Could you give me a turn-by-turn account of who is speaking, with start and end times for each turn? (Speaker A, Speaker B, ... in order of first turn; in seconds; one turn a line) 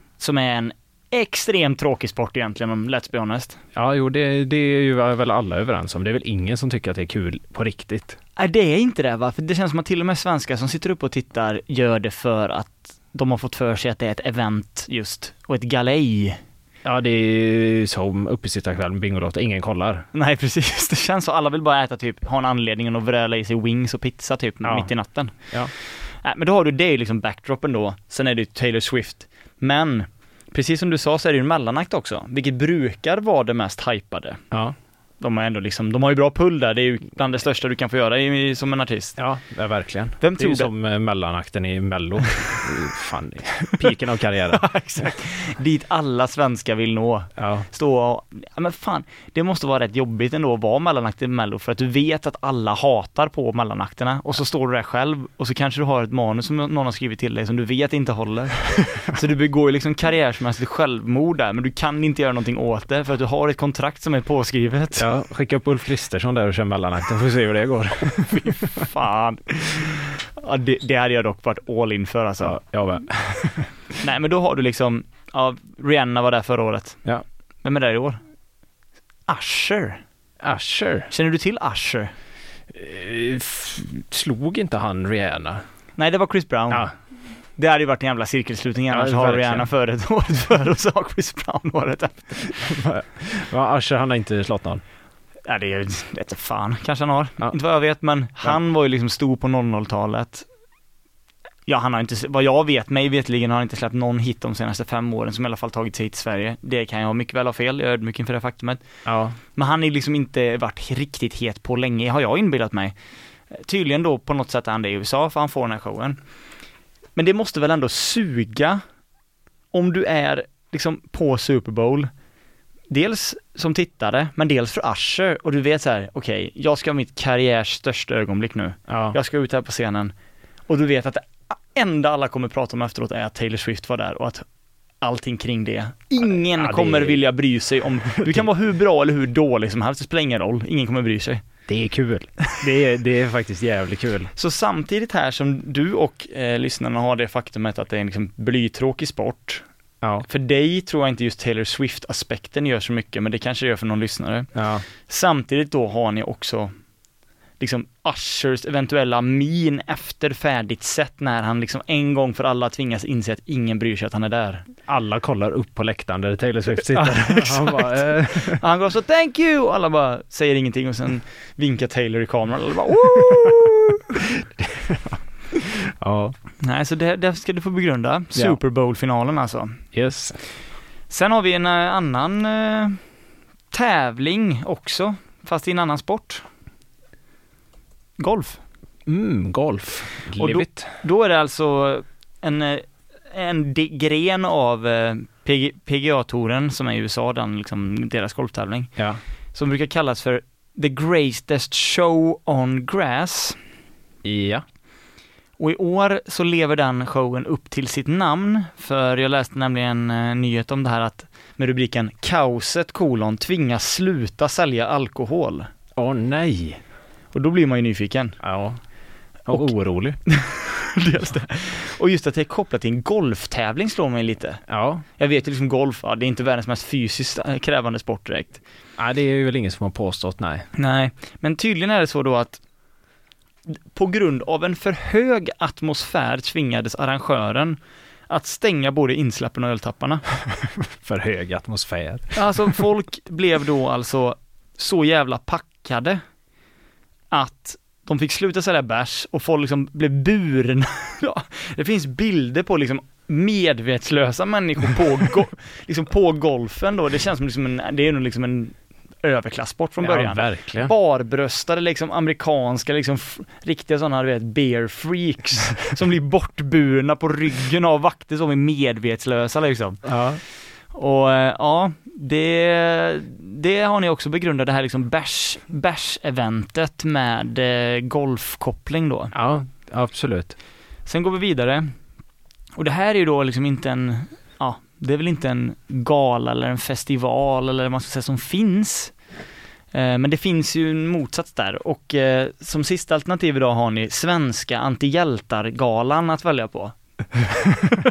Speaker A: 0.2-3.6
Speaker B: 3.7-8.2
Speaker A: 8.4-16.4
Speaker B: 16.8-20.1
Speaker A: 20.1-34.4
Speaker B: 24.6-25.7
Speaker B: 34.5-34.8
Speaker A: 35.2-39.2
Speaker B: 39.2-45.1
Speaker A: 40.2-40.7
Speaker A: 44.5-65.0
Speaker B: 47.4-47.7
Speaker B: 65.0-68.8
Speaker A: 68.3-72.6
Speaker B: 72.4-73.7
Speaker A: 74.0-77.0
Speaker A: 77.6-78.2
Speaker A: 79.3-80.0
Speaker B: 80.4-81.1
Speaker A: 81.1-82.1
Speaker B: 82.7-85.6
Speaker A: 86.0-86.9
Speaker A: 87.5-92.4
Speaker B: 88.9-89.7
Speaker B: 92.5-94.8
Speaker A: 95.5-100.4
Speaker A: 101.7-108.8
Speaker B: 109.0-109.4
Speaker A: 109.5-113.0
Speaker A: 113.5-116.2
Speaker A: 117.2-118.8
Speaker A: 119.7-122.1
Speaker A: 122.9-130.1
Speaker B: 128.9-129.2
Speaker A: 130.7-134.4
Speaker A: 135.0-141.4
Speaker B: 136.2-137.2
Speaker B: 138.2-138.5
Speaker B: 141.7-144.3
Speaker A: 144.3-149.6
Speaker A: 150.3-154.5
Speaker B: 154.5-154.8
Speaker A: 155.0-156.7
Speaker A: 157.6-164.7
Speaker B: 164.9-168.6
Speaker A: 166.9-174.0
Speaker B: 174.4-176.3
Speaker A: 176.6-179.8
Speaker B: 179.9-180.4
Speaker A: 181.1-183.0
Speaker A: 183.7-186.4
Speaker A: 188.2-188.6
Speaker B: 189.1-190.9
Speaker A: 190.4-199.0
Speaker B: 198.9-199.2
Speaker A: 199.5-203.6
Speaker B: 204.2-204.6
Speaker A: 205.6-215.7
Speaker B: 215.9-216.8
Speaker A: 217.3-218.4
Speaker B: 218.4-218.8
Speaker B: 219.4-220.2
Speaker A: 220.3-224.6
Speaker B: 224.7-225.0
Speaker A: 225.2-228.6
Speaker B: 229.0-230.7
Speaker A: 230.8-232.6
Speaker A: 233.7-237.8
Speaker A: 238.3-240.2
Speaker B: 240.6-242.8
Speaker A: 242.3-246.2
Speaker A: 247.3-270.0
Speaker B: 260.0-260.9
Speaker B: 270.0-270.4
Speaker A: 270.9-279.3
Speaker B: 279.3-280.6
Speaker A: 281.1-281.9
Speaker A: 282.8-289.2
Speaker A: 289.9-296.9